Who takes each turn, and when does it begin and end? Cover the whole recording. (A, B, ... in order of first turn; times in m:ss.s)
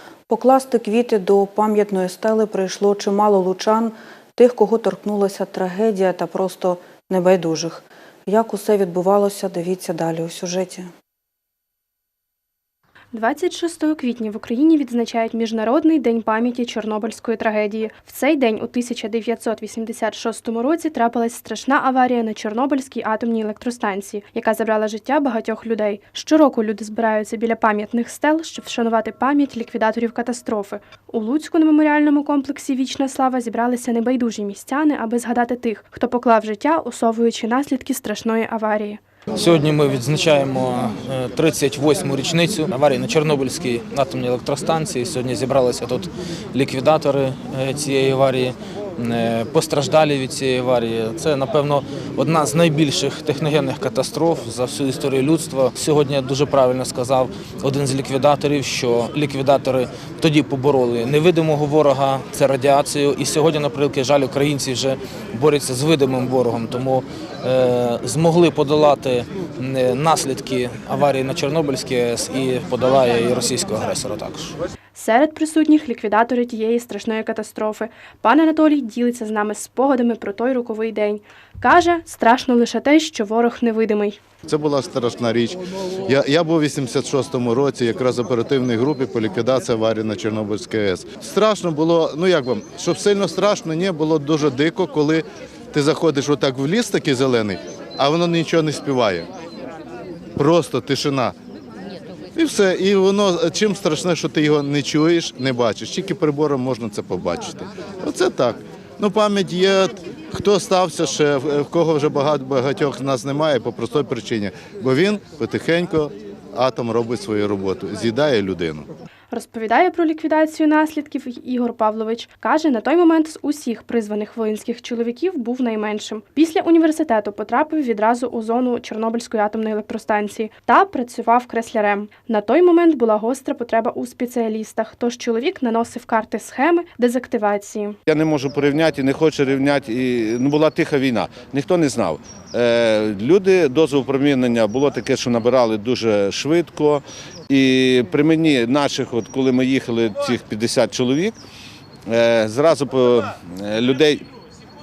0:00.3-0:10.9 A
0:13.1-0:39.0 B
0:39.3-1:14.5 C
1:14.9-1:24.2 B
1:24.5-1:39.3 D
1:40.4-1:41.3 D
1:42.4-1:58.9 D
1:59.3-2:18.0 B
2:18.1-2:31.4 E
2:32.1-2:34.2 E